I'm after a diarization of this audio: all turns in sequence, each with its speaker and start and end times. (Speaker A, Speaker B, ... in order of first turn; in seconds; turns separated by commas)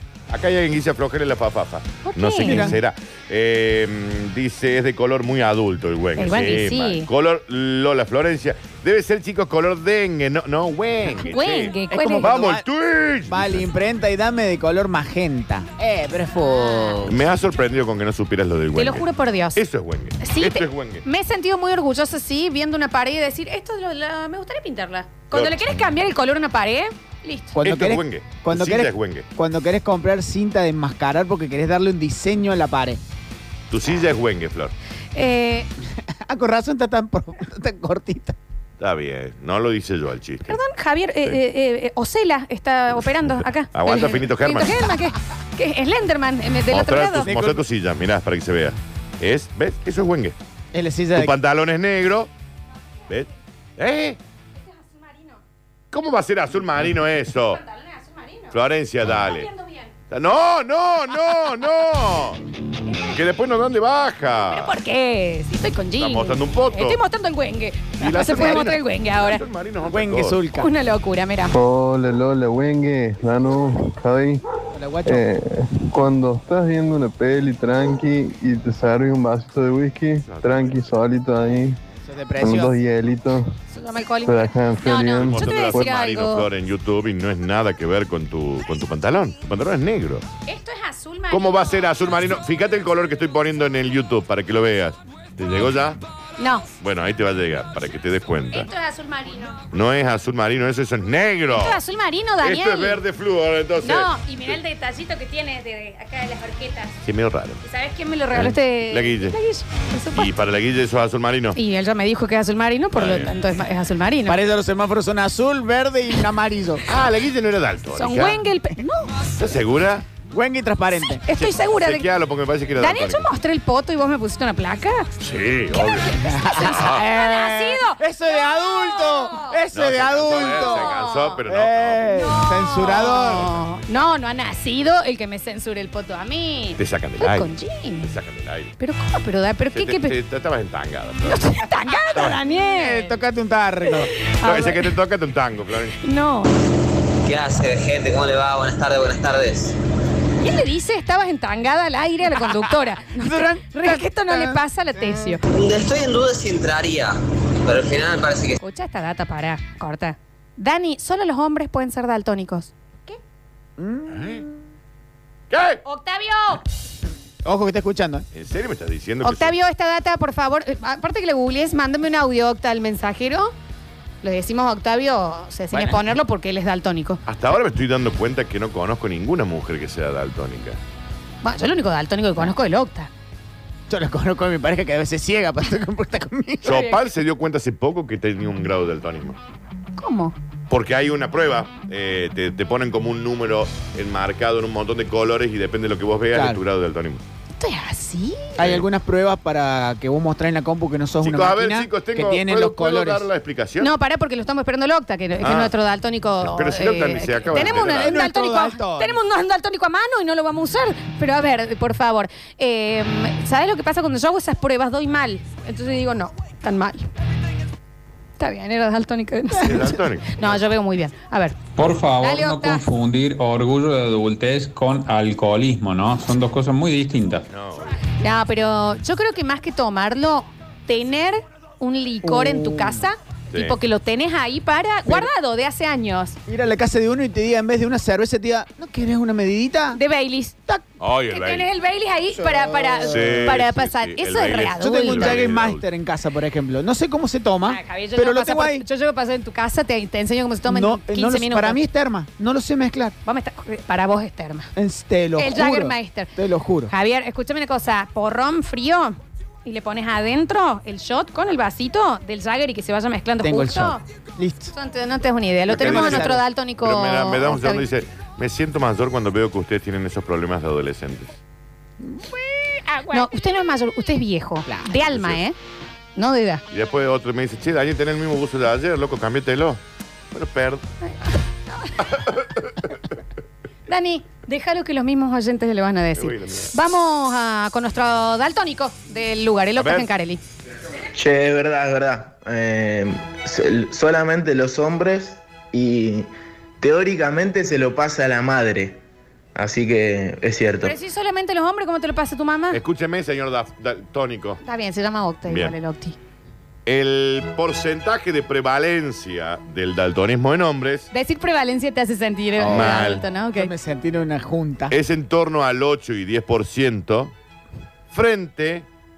Speaker A: 0.3-13.7, Speaker B: 2.0-2.8, Speaker C: 2.4-2.8, Speaker B: 6.2-7.1, Speaker B: 11.2-12.3, Speaker C: 11.9-12.6, Speaker C: 13.3-17.2, Speaker B: 16.4-17.1, Speaker A: 17.1-21.0, Speaker B: 18.8-19.6, Speaker B: 20.2-27.6, Speaker A: 25.3-25.7, Speaker C: 27.5-33.0, Speaker A: 27.6-29.3, Speaker A: 33.7-34.7, Speaker B: 35.1-35.7, Speaker C: 36.0-38.4, Speaker A: 38.8-40.6, Speaker B: 40.5-47.3, Speaker A: 43.3-44.9, Speaker A: 46.7-50.4, Speaker C: 47.2-47.6, Speaker C: 50.7-51.3, Speaker A: 51.1-52.3, Speaker A: 53.1-54.2, Speaker B: 54.6-55.4, Speaker A: 55.9-57.6, Speaker B: 57.5-58.5, Speaker A: 58.5-59.5, Speaker B: 59.1-59.9, Speaker A: 60.1-62.4, Speaker A: 63.1-64.8, Speaker B: 64.4-69.4, Speaker A: 66.0-67.0, Speaker A: 68.0-70.4, Speaker C: 68.0-68.6, Speaker C: 69.8-70.7, Speaker B: 70.6-71.6, Speaker D: 71.5-74.4, Speaker C: 74.7-75.2, Speaker D: 75.0-81.7, Speaker A: 79.8-81.4, Speaker C: 82.0-82.8, Speaker D: 82.4-83.4, Speaker A: 82.7-83.3, Speaker B: 83.7-86.5, Speaker D: 84.2-85.9, Speaker A: 84.4-90.3, Speaker B: 90.4-91.8, Speaker A: 91.3-96.0, Speaker B: 96.4-96.7, Speaker A: 96.8-98.7, Speaker B: 98.5-99.6, Speaker A: 99.7-101.8, Speaker B: 101.5-103.0, Speaker A: 102.4-104.5, Speaker B: 103.8-107.0, Speaker A: 107.0-107.6, Speaker B: 107.6-110.3, Speaker A: 108.3-109.4, Speaker A: 110.1-111.6, Speaker B: 111.5-114.4, Speaker A: 112.9-113.3, Speaker C: 114.2-116.8, Speaker A: 116.8-118.4, Speaker B: 117.9-119.1, Speaker A: 119.4-120.0, Speaker C: 120.3-121.2, Speaker B: 121.2-122.1, Speaker A: 121.3-123.3, Speaker B: 122.8-125.0, Speaker A: 125.2-127.0, Speaker B: 125.8-129.6, Speaker C: 126.2-130.9, Speaker A: 129.7-132.2, Speaker B: 130.3-131.4, Speaker C: 131.5-133.5, Speaker B: 132.2-138.1, Speaker A: 133.0-133.9, Speaker A: 136.8-138.7, Speaker B: 138.8-140.2, Speaker A: 139.7-141.5, Speaker B: 141.2-143.2, Speaker C: 142.1-144.1, Speaker B: 143.9-144.8, Speaker A: 144.4-146.0, Speaker B: 146.0-146.5, Speaker E: 147.2-149.7, Speaker B: 150.4-155.4, Speaker C: 152.3-155.4, Speaker E: 155.6-157.1, Speaker E: 157.7-158.6, Speaker B: 158.6-163.2, Speaker C: 163.8-164.5, Speaker A: 164.1-164.4, Speaker A: 165.5-165.8, Speaker B: 165.8-166.6, Speaker C: 167.4-168.2, Speaker A: 168.3-169.6, Speaker B: 169.2-173.5, Speaker B: 174.2-177.2, Speaker C: 175.7-176.1, Speaker A: 177.2-180.8, Speaker B: 181.4-183.1, Speaker C: 183.9-186.7, Speaker B: 186.6-187.0, Speaker A: 186.6-189.4, Speaker B: 190.0-190.3, Speaker A: 190.7-197.2, Speaker C: 196.3-196.6, Speaker B: 197.6-198.6, Speaker C: 198.6-203.3, Speaker A: 198.6-198.9, Speaker A: 201.2-203.9, Speaker B: 203.8-217.0, Speaker A: 205.4-205.8, Speaker A: 206.4-208.1, Speaker C: 207.5-209.2, Speaker B: 218.4-221.6, Speaker A: 219.6-220.7, Speaker F: 221.8-227.4, Speaker B: 222.2-222.8, Speaker A: 227.5-227.9, Speaker B: 228.2-236.4, Speaker C: 232.2-233.0, Speaker A: 233.5-233.8, Speaker C: 235.1-235.3, Speaker C: 236.5-240.0, Speaker B: 239.9-240.6, Speaker A: 241.0-241.7, Speaker B: 241.3-245.4, Speaker C: 242.7-243.5, Speaker A: 243.1-245.8, Speaker C: 244.7-248.8, Speaker B: 247.6-251.8, Speaker C: 250.6-253.1, Speaker B: 253.2-254.7, Speaker C: 254.8-256.9, Speaker B: 255.4-256.3, Speaker B: 256.9-264.0, Speaker C: 263.4-264.7, Speaker B: 264.7-267.9, Speaker C: 265.7-266.4, Speaker A: 265.7-271.4, Speaker C: 272.2-273.3, Speaker B: 273.1-275.5, Speaker C: 274.6-274.9, Speaker A: 275.1-275.4, Speaker B: 276.1-276.6, Speaker A: 276.7-279.8, Speaker A: 280.3-280.8, Speaker B: 281.1-281.9, Speaker A: 282.0-282.9, Speaker B: 283.9-290.4, Speaker A: 286.1-286.8, Speaker A: 289.7-290.1, Speaker G: 291.1-296.3, Speaker G: 296.8-299.0, Speaker G: 299.5-300.9, Speaker B: 300.8-302.8, Speaker A: 302.7-304.6, Speaker B: 304.6-306.1, Speaker A: 305.5-305.8, Speaker A: 306.9-311.1, Speaker B: 311.1-313.7, Speaker C: 312.6-313.0, Speaker A: 312.6-313.2, Speaker C: 313.5-314.9, Speaker A: 314.9-317.3, Speaker A: 318.1-318.9